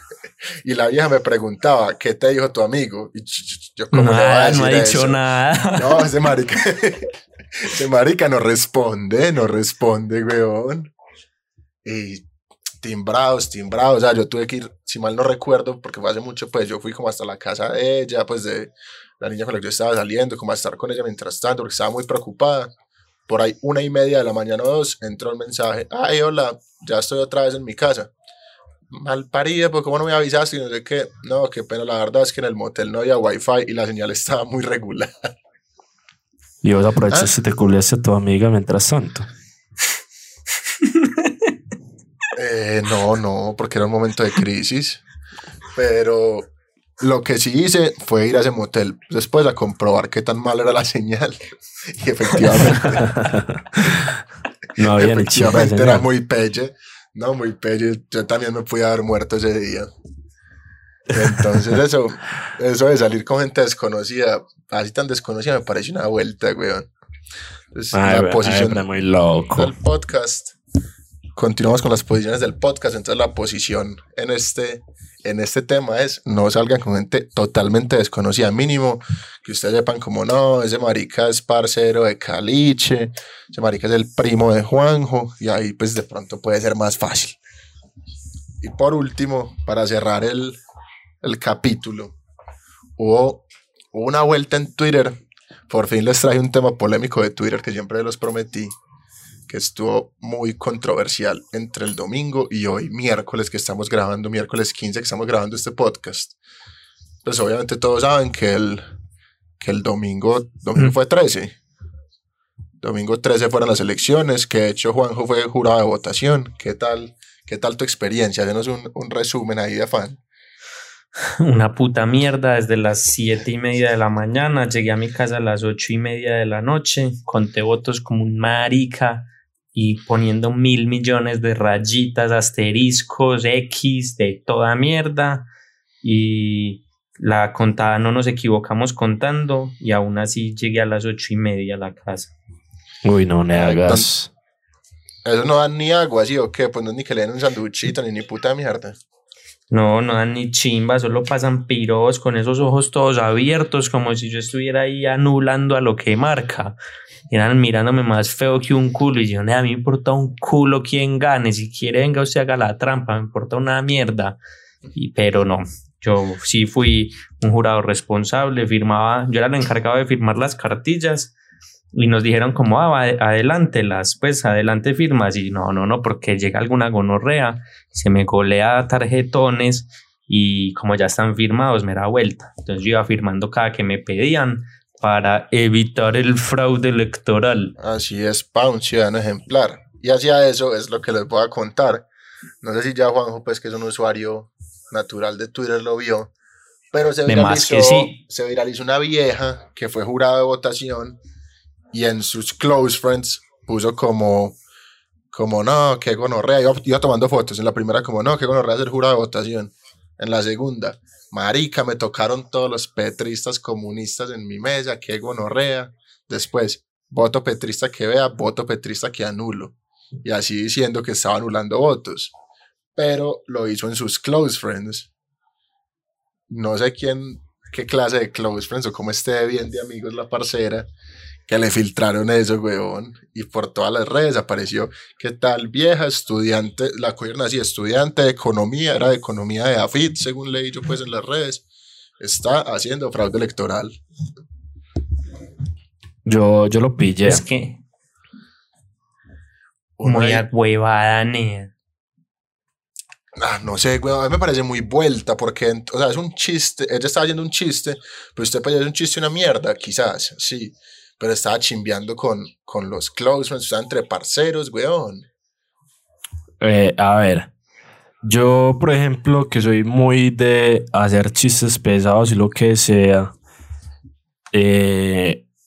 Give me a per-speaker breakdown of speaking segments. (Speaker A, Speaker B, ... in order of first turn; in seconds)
Speaker A: 0.6-5.2, 5.7-10.9, 11.8-12.3, 12.8-22.7, 23.3-28.1, 28.9-35.1, 42.4-45.0, 45.8-53.1, 55.0-59.9, 61.1-66.9, 67.7-68.9, 69.5-70.5, 71.3-87.4, 88.6-90.6, 91.2-92.2, 93.0-95.2, 95.7-98.7, 99.5-106.4, 107.2-108.9, 109.6-111.5, 112.8-120.2, 143.5-144.1, 145.2-149.0, 187.8-192.1, 192.6-196.3, 196.9-201.2, 201.9-204.6, 205.3-222.3, 223.0-225.1, 226.5-230.9, 231.5-241.6, 242.2-244.0, 250.0-250.4, 253.4-265.3
Speaker B: 3.9-6.0, 40.8-41.3, 121.4-135.5, 136.0-142.3, 149.7-156.8, 157.3-164.4, 164.9-171.3, 171.9-187.7, 197.3-198.2, 247.2-247.8, 250.0-251.7
Speaker C: 36.6-39.3, 52.8-54.2, 54.8-56.0, 61.1-61.8, 67.9-69.7, 143.0-144.3, 246.2-247.4, 266.6-267.5, 268.2-273.3, 274.5-275.4